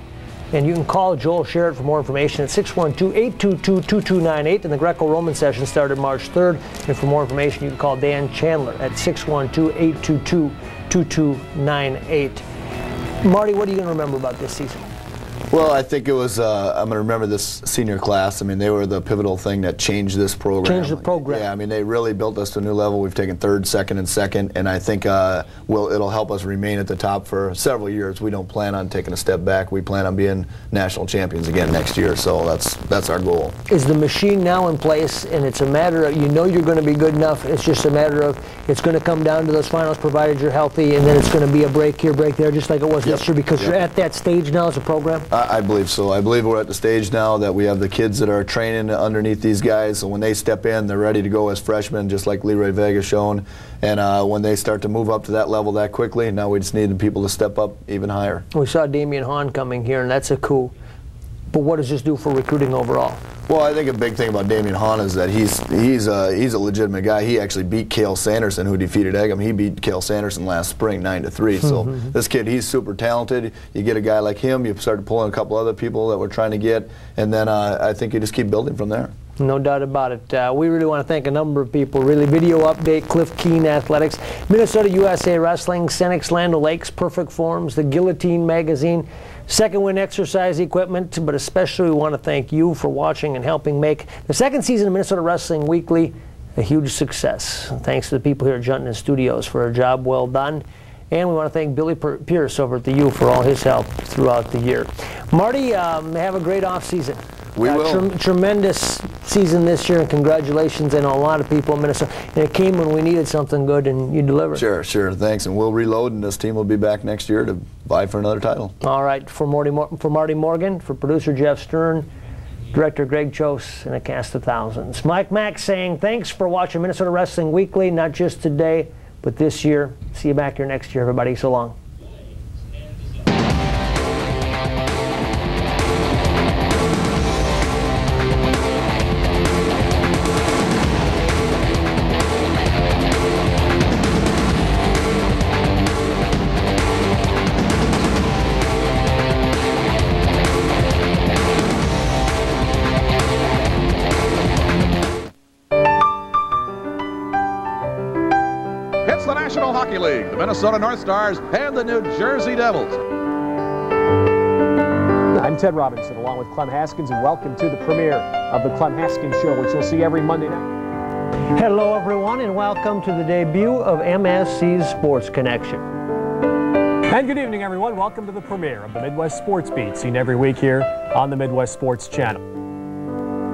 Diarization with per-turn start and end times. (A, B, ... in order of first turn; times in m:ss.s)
0:00.5-0:12.4 A
0:13.2-0:14.9 A
0:15.5-0:33.6 B
0:20.6-0:21.4 A
0:33.7-0:45.3 A
0:43.0-0:43.8 B
0:45.3-0:58.4 B
0:58.5-1:00.7 A
1:01.5-1:03.2 A
1:03.5-1:19.1 B
1:11.6-1:12.0 A
1:19.4-1:54.6 A
1:47.6-1:48.1 B
1:54.6-1:58.7 B
1:58.8-2:02.1 A
2:02.7-2:11.8 A
2:39.1-2:43.0 C
2:45.3-2:50.6 D
2:51.5-2:55.8 A
2:57.1-3:02.4 D